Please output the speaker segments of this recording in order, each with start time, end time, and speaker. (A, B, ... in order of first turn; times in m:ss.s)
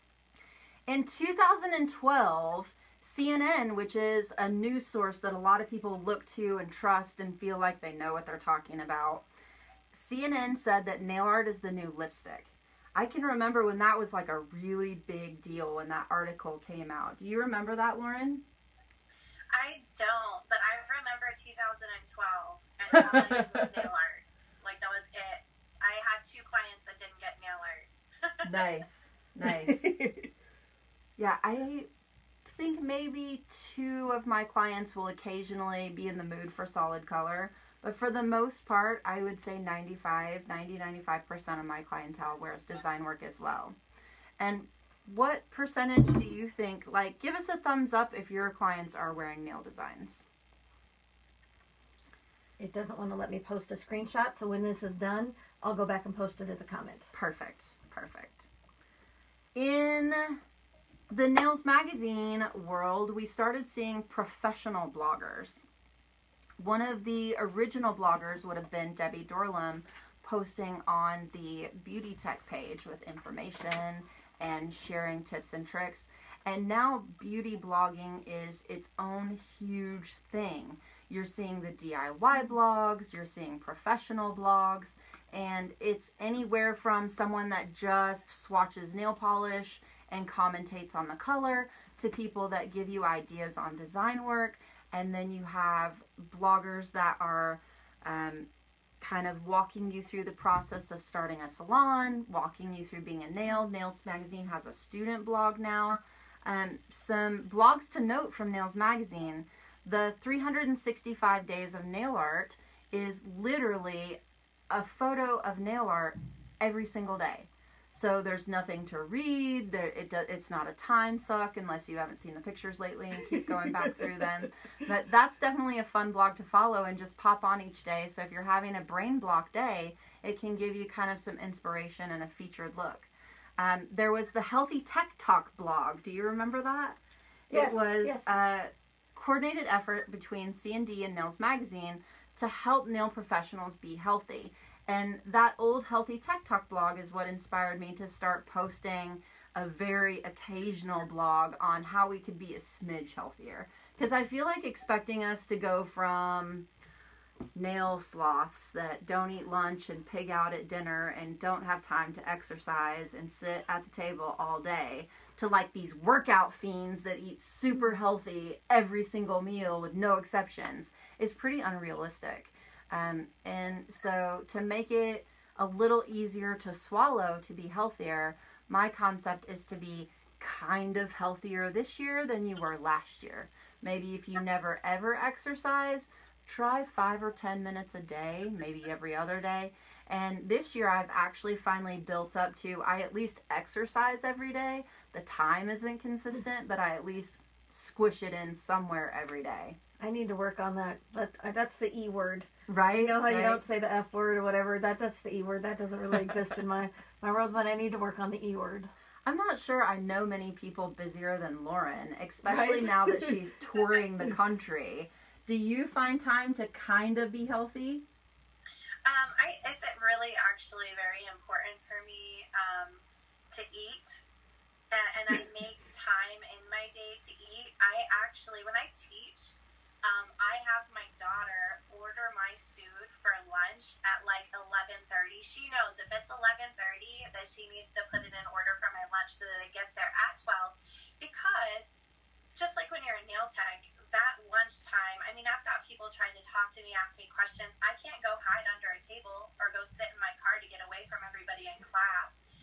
0:00.9-0:09.2 A
0:09.9-0:18.4 A
0:19.5-0:28.5 B
0:22.9-0:23.9 A
0:28.4-0:29.8 A
0:29.5-0:30.3 C
0:31.2-0:31.9 A
0:32.4-0:43.8 A
0:44.4-0:50.2 A
0:52.6-0:57.1 C
0:57.1-0:58.5 A
0:59.6-1:00.4 A
1:01.1-1:05.6 A
1:06.6-1:38.5 A
1:39.0-1:54.2 A
1:54.7-2:17.0 A
2:17.5-2:36.7 A
2:17.5-2:18.3 C
2:37.6-3:19.8 A
3:20.0-3:28.9 C
3:22.7-3:23.6 A
3:29.3-3:38.0 A
3:32.4-3:33.4 C
3:39.0-3:44.2 B
3:44.9-4:01.9 B
4:02.6-4:12.4 B